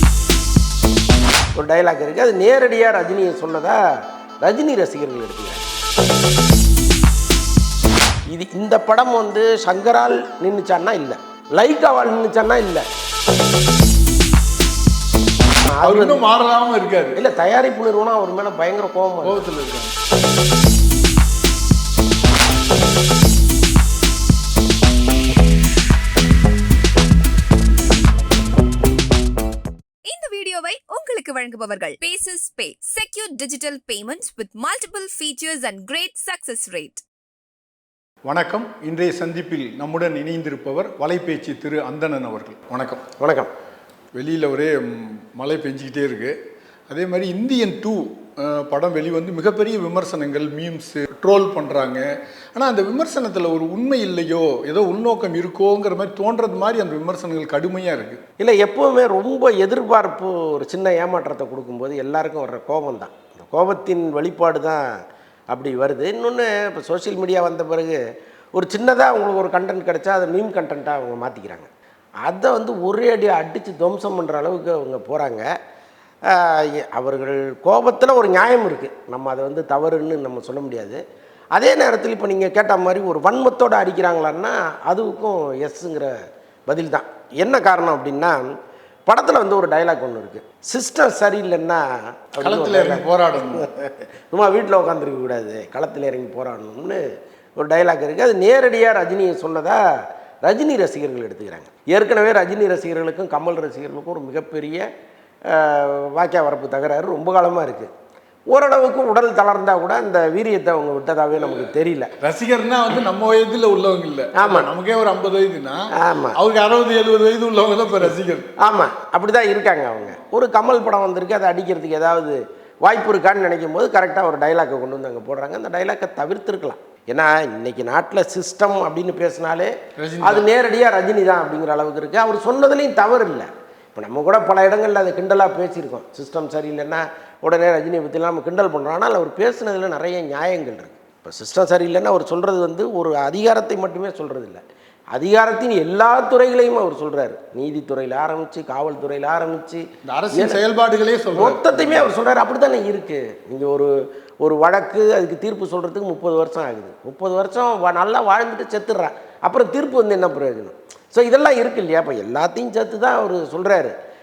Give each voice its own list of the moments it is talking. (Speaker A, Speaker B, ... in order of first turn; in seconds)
Speaker A: 1.6-3.8, 4.4-5.7, 8.3-12.8, 15.6-16.2, 17.1-19.4, 43.2-43.5, 58.4-64.8, 65.5-68.0, 68.5-71.7, 72.2-75.5, 76.3-81.0, 81.5-86.1, 86.7-88.4, 89.1-97.0, 97.6-99.8, 100.5-104.8, 105.5-107.9, 108.5-112.1, 114.3-114.7, 116.0-116.4, 118.6-144.6, 145.1-150.6, 151.3-153.9, 154.4-163.9
Speaker B: 15.8-17.2, 19.2-19.9, 38.2-43.0, 44.1-46.3, 46.9-58.2, 92.4-93.7, 111.4-118.5, 130.0-130.5, 150.1-152.1
Speaker C: 30.1-37.0